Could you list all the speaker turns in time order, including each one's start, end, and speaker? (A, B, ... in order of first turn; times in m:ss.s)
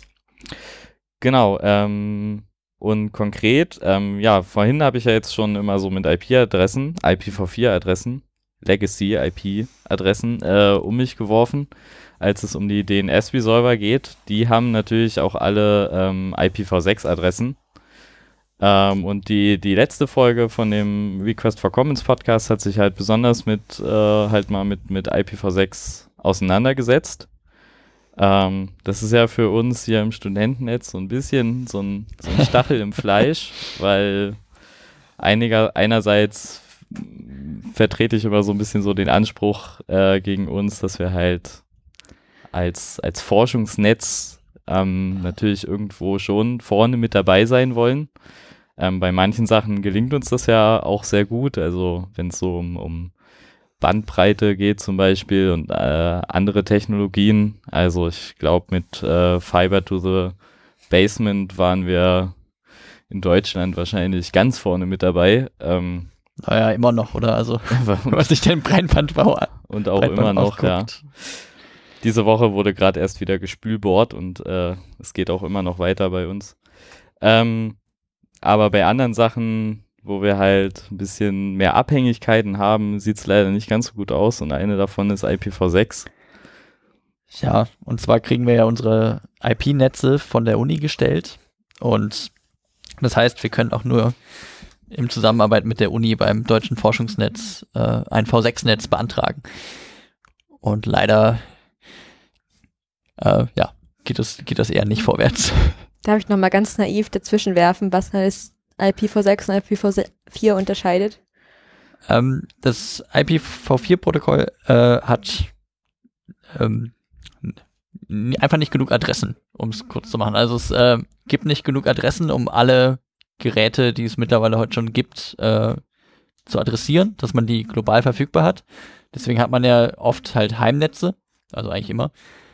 0:01.2-0:17.6 A
0:18.6-0:27.3 A
0:28.2-0:34.4 A
0:35.2-0:41.6 A
0:42.5-0:48.1 A
0:48.8-0:53.1 A
0:53.8-1:00.4 A
1:00.9-1:02.4 A
1:03.1-1:06.1 A
1:06.4-1:11.0 B
1:07.7-1:08.3 A
1:09.7-1:11.5 A
1:12.0-1:16.6 A
1:17.2-1:17.8 A
1:18.4-1:26.1 A
1:27.3-1:32.3 B
1:33.0-1:34.2 B
1:34.9-1:39.9 B
1:40.6-1:41.4 B
1:43.2-1:45.8 B
1:46.0-1:51.2 C
1:52.1-1:55.5 B
1:56.5-2:05.8 B
2:06.4-2:12.1 B